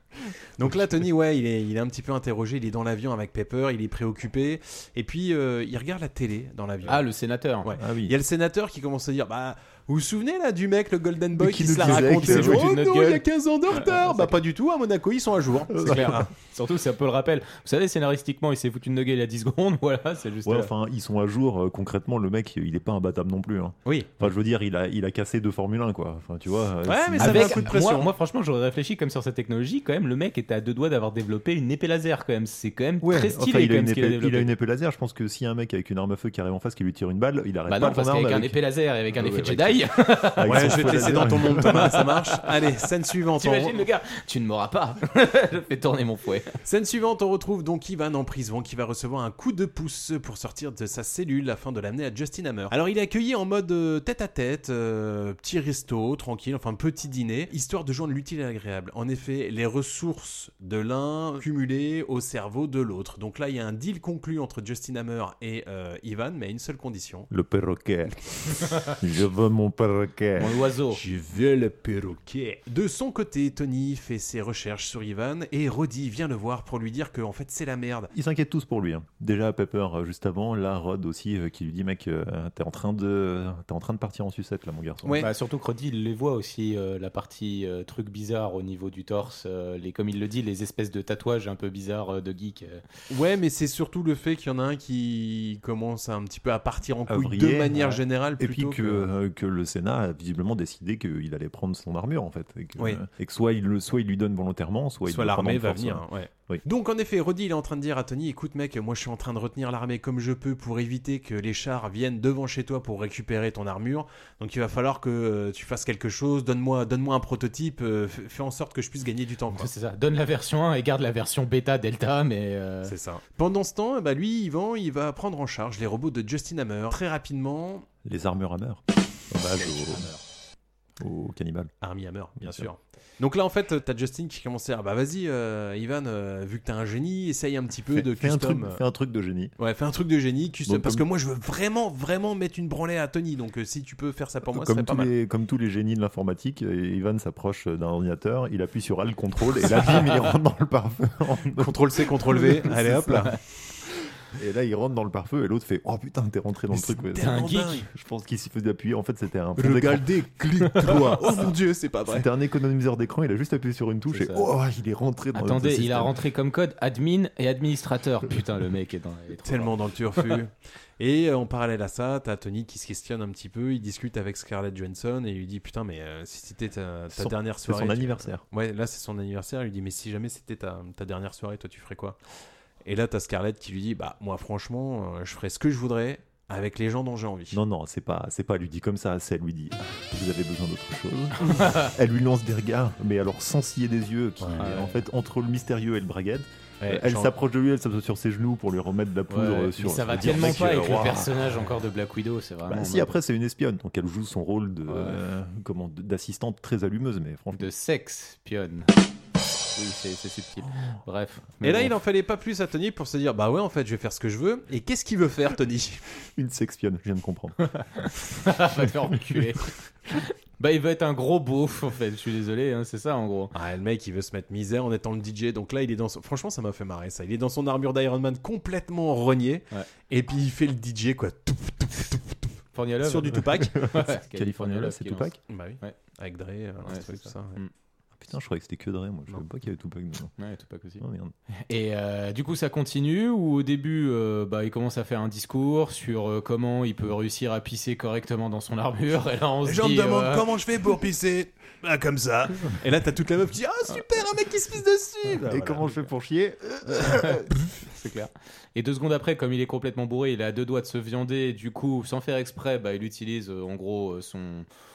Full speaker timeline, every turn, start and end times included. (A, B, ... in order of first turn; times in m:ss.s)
0:00.6-0:07.0 A
0:06.8-0:07.7 B
0:07.6-0:16.3 A
0:07.8-0:08.1 C
0:11.4-0:12.7 C
0:11.8-0:13.2 B
0:13.7-0:14.3 B
0:15.8-0:16.2 C
0:15.8-0:20.7 B
0:20.4-0:27.7 C
0:23.8-0:24.2 A
0:26.8-0:28.1 A
0:27.2-0:34.5 B
0:33.0-0:42.0 C
0:37.7-0:42.5 B
0:40.4-0:43.8 A
0:43.4-0:46.5 B
0:46.6-1:07.3 A
1:07.3-1:10.6 C
1:10.4-1:11.0 B
1:10.9-1:18.1 A
1:18.1-1:25.2 C
1:25.0-1:25.3 A
1:25.2-1:32.8 B
1:33.1-1:39.1 A
1:37.1-1:37.8 C
1:37.7-1:38.0 B
1:38.4-1:46.6 C
1:42.8-1:43.0 A
1:45.0-1:59.7 A
1:59.5-2:02.9 B
2:02.8-2:07.9 A
2:08.0-2:10.1 C
2:09.6-2:10.2 B
2:11.0-2:11.7 C
2:11.8-2:18.8 A
2:12.4-2:12.7 C
2:17.9-2:19.5 C
2:19.6-2:25.1 A
2:20.6-2:21.0 C
2:24.4-2:33.4 C
2:31.6-2:33.4 A
2:34.3-2:40.1 C
2:36.7-2:37.9 A
2:37.2-2:37.8 B
2:39.6-2:42.3 A
2:40.8-2:41.4 C
2:42.1-2:46.1 C
2:44.1-2:44.5 B
2:45.3-2:49.7 B
2:49.4-3:02.2 A
2:57.1-2:58.4 C
3:02.8-3:07.6 A
3:07.5-3:21.3 C
3:11.6-3:11.9 B
3:14.4-3:14.7 A
3:14.6-3:15.0 B
3:16.8-3:17.3 A
3:19.3-3:23.2 B
3:22.6-3:27.7 C
3:24.9-3:25.2 B
3:27.5-3:28.9 B
3:29.8-3:31.9 B
3:31.6-3:36.0 A
3:36.4-3:37.6 C
3:37.7-3:43.5 B
3:43.5-3:53.8 A
3:52.7-3:55.9 B
3:53.5-3:55.4 C
3:55.5-3:57.6 A
3:56.8-3:57.7 B
3:58.2-4:00.3 C
4:00.4-4:01.0 B
4:01.0-4:01.3 C
4:01.7-4:10.5 B
4:09.6-4:16.0 A
4:15.3-4:17.5 C
4:16.9-4:17.4 B
4:17.9-4:24.7 B